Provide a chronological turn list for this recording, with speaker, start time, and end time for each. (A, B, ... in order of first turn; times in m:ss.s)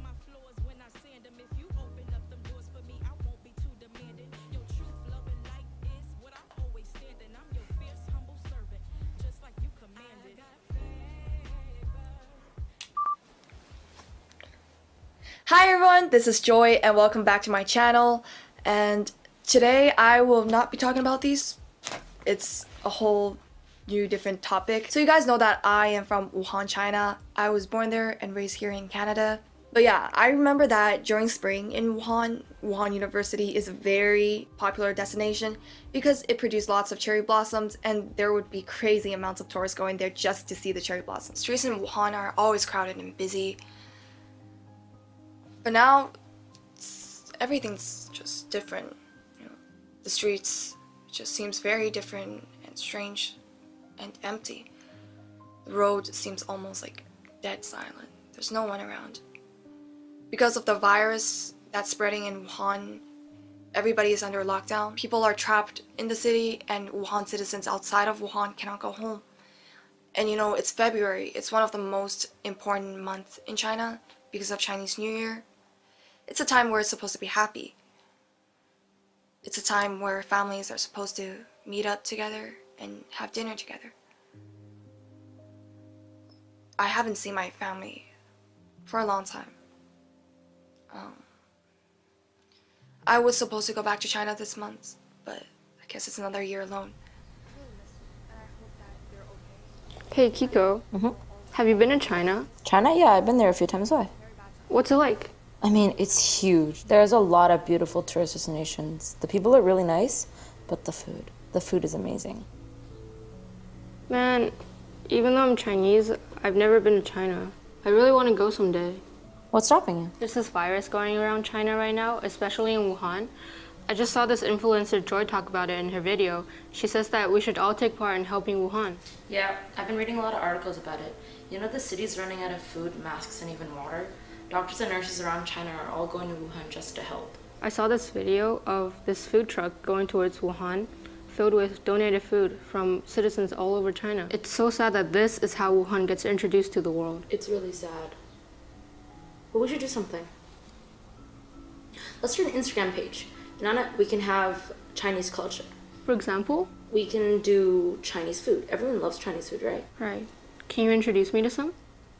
0:15.4-0:21.6 A
0:22.2-0:43.6 A
0:45.6-0:46.1 A
0:46.8-0:53.4 A
0:54.0-0:54.7 A
0:55.6-0:59.2 A
1:00.3-1:03.0 A
1:03.7-1:09.2 A
1:10.1-1:15.4 A
1:16.3-1:17.8 A
1:19.4-1:23.9 A
1:26.8-1:28.1 A
1:28.8-1:29.6 A
1:30.9-1:31.2 A
1:33.0-1:37.0 A
1:40.1-1:40.8 B
1:41.5-1:42.5 B
1:42.6-1:44.1 C
1:44.7-1:45.3 B
1:45.6-1:52.4 C
1:54.1-1:59.0 B
1:59.5-2:00.1 C
2:00.2-2:03.3 B
2:03.9-2:09.0 B
2:09.3-2:17.4 C
2:17.6-2:27.2 B
2:27.3-2:28.2 C
2:29.5-2:30.3 C
2:32.2-2:35.7 C
2:36.0-2:36.7 B
2:36.8-2:39.9 C
2:40.0-2:41.7 B